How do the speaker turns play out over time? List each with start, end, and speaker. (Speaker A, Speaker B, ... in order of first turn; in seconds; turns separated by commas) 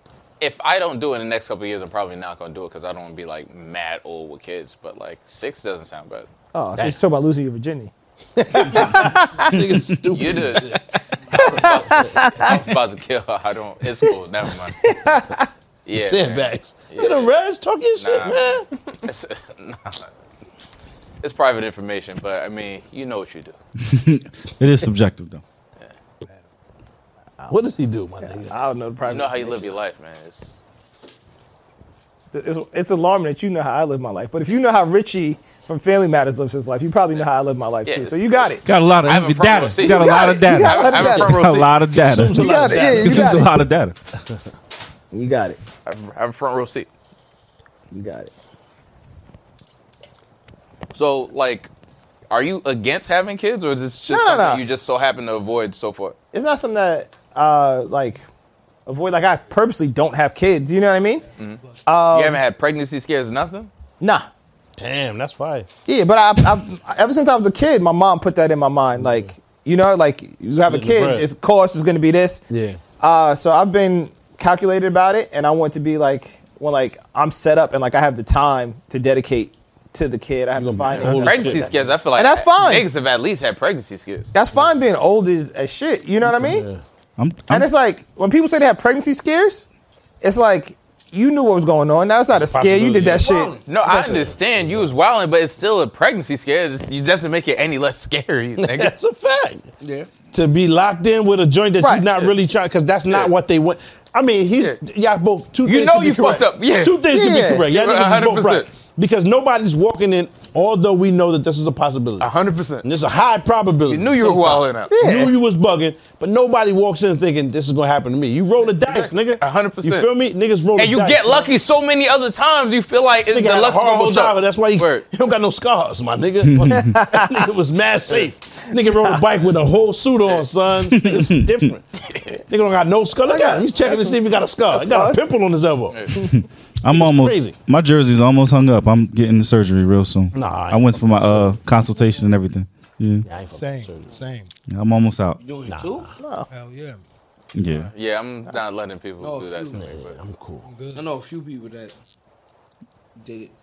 Speaker A: 0.4-6.3, Speaker B: 6.5-7.9, Speaker C: 8.3-12.5, Speaker B: 8.5-9.5, Speaker A: 10.1-10.7, Speaker A: 11.3-14.9, Speaker B: 11.3-12.5, Speaker B: 14.8-15.5, Speaker A: 15.8-17.3, Speaker C: 15.9-18.7, Speaker A: 18.0-20.1, Speaker A: 21.2-23.6, Speaker D: 23.8-25.4, Speaker C: 27.4-28.6, Speaker B: 28.2-29.8, Speaker A: 29.0-30.5, Speaker B: 32.3-38.6, Speaker A: 37.9-38.5, Speaker D: 38.6-43.9, Speaker A: 39.0-41.8, Speaker B: 39.8-41.4, Speaker C: 42.1-43.4, Speaker B: 42.3-43.5, Speaker B: 45.1-45.6, Speaker A: 45.9-46.9, Speaker B: 47.9-48.3, Speaker A: 50.9-51.7, Speaker A: 52.3-56.1, Speaker B: 54.1-54.6, Speaker B: 56.3-58.2, Speaker B: 58.9-61.2, Speaker B: 61.9-62.4, Speaker A: 62.1-63.7, Speaker B: 64.0-64.3, Speaker C: 64.8-65.7, Speaker B: 65.8-72.4, Speaker C: 69.0-69.3, Speaker C: 70.6-71.3, Speaker C: 72.5-72.8, Speaker B: 73.0-82.9, Speaker C: 80.5-81.9, Speaker A: 81.0-84.3, Speaker B: 84.3-86.7, Speaker C: 86.2-86.8, Speaker D: 87.2-87.7, Speaker B: 87.5-89.7, Speaker B: 90.2-93.5, Speaker C: 92.3-93.3, Speaker E: 93.0-93.6, Speaker A: 93.7-98.9, Speaker C: 93.8-94.9, Speaker C: 98.6-99.7, Speaker E: 99.8-100.1, Speaker C: 100.3-112.3, Speaker A: 105.6-107.0, Speaker B: 107.1-107.7, Speaker A: 107.7-108.7, Speaker A: 112.2-112.9, Speaker C: 112.8-121.5, Speaker A: 113.9-114.9, Speaker B: 114.9-115.3, Speaker A: 119.4-120.1, Speaker A: 120.8-125.0, Speaker C: 123.2-131.8, Speaker D: 126.5-126.9, Speaker B: 126.7-127.5, Speaker B: 128.9-129.2, Speaker D: 130.9-131.5, Speaker C: 132.5-136.1, Speaker B: 133.2-135.2, Speaker D: 136.3-143.2, Speaker C: 136.9-137.6, Speaker C: 140.3-141.6, Speaker F: 141.9-142.3, Speaker C: 143.2-144.1, Speaker F: 143.5-144.5, Speaker D: 144.7-145.4, Speaker E: 145.4-146.1, Speaker C: 145.7-146.1, Speaker B: 146.2-146.5, Speaker F: 146.5-147.0, Speaker D: 147.5-147.9, Speaker A: 147.8-150.2, Speaker E: 149.2-149.8, Speaker C: 149.7-150.7, Speaker F: 150.6-151.1, Speaker E: 150.9-151.9, Speaker E: 153.2-153.5